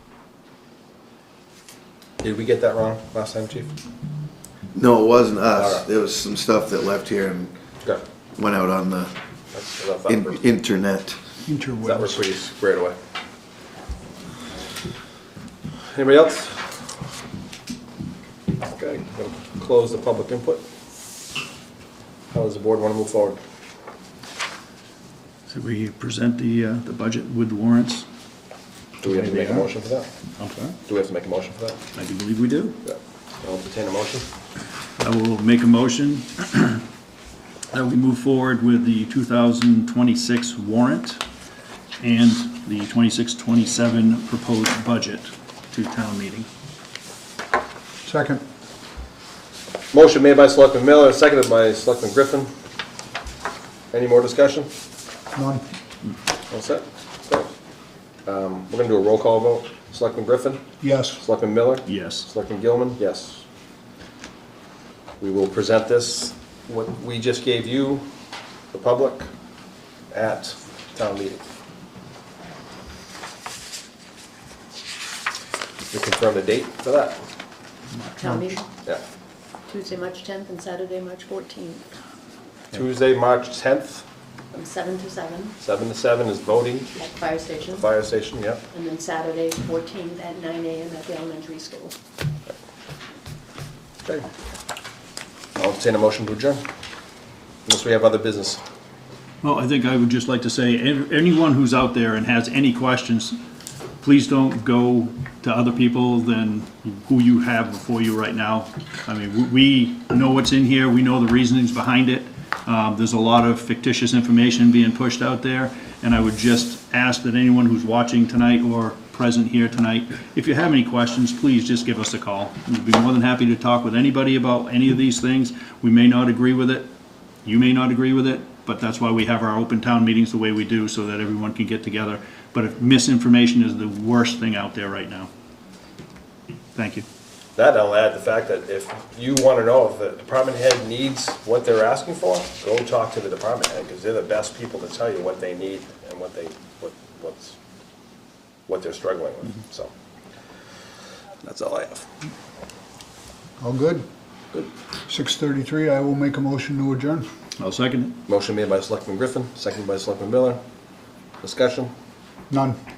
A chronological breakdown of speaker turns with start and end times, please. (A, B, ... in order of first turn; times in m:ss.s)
0:02.2-0:03.7 A
0:04.7-0:07.5 B
0:05.5-0:05.8 A
0:08.4-0:09.1 B
0:09.5-0:10.4 A
0:10.1-0:11.2 B
0:11.4-0:12.2 C
0:11.8-0:13.0 A
0:15.9-0:16.8 A
0:18.7-0:20.6 A
0:22.3-0:23.4 A
0:25.5-0:28.1 D
0:29.0-0:30.1 A
0:29.0-0:29.7 D
0:30.4-0:30.8 D
0:30.8-0:31.8 A
0:31.9-0:32.8 D
0:32.8-0:34.3 A
0:35.0-0:36.8 D
0:37.7-0:41.2 D
0:42.0-0:46.5 D
0:48.0-0:48.4 C
0:49.9-0:52.5 A
0:53.9-0:54.7 A
0:55.3-0:55.7 C
0:56.5-0:57.5 A
0:58.3-1:03.4 A
1:00.8-1:01.2 C
1:01.9-1:02.3 D
1:05.2-1:08.1 A
1:08.7-1:09.3 A
1:10.1-1:11.4 A
1:15.9-1:17.2 A
1:18.2-1:18.7 E
1:19.7-1:21.9 E
1:22.7-1:24.0 A
1:24.5-1:25.6 E
1:25.6-1:27.0 A
1:27.0-1:27.9 E
1:27.8-1:28.6 A
1:28.7-1:32.0 E
1:35.6-1:36.6 A
1:37.7-1:38.6 A
1:39.4-1:43.4 D
1:44.0-2:06.9 D
2:07.4-2:15.3 D
2:16.8-2:17.1 D
2:17.6-2:27.6 A
2:28.7-2:29.9 A
2:31.4-2:32.1 A
2:33.6-2:34.1 C
2:35.1-2:37.3 C
2:37.6-2:38.2 D
2:38.3-2:40.6 A
2:41.4-2:41.9 A
2:42.5-2:42.8 C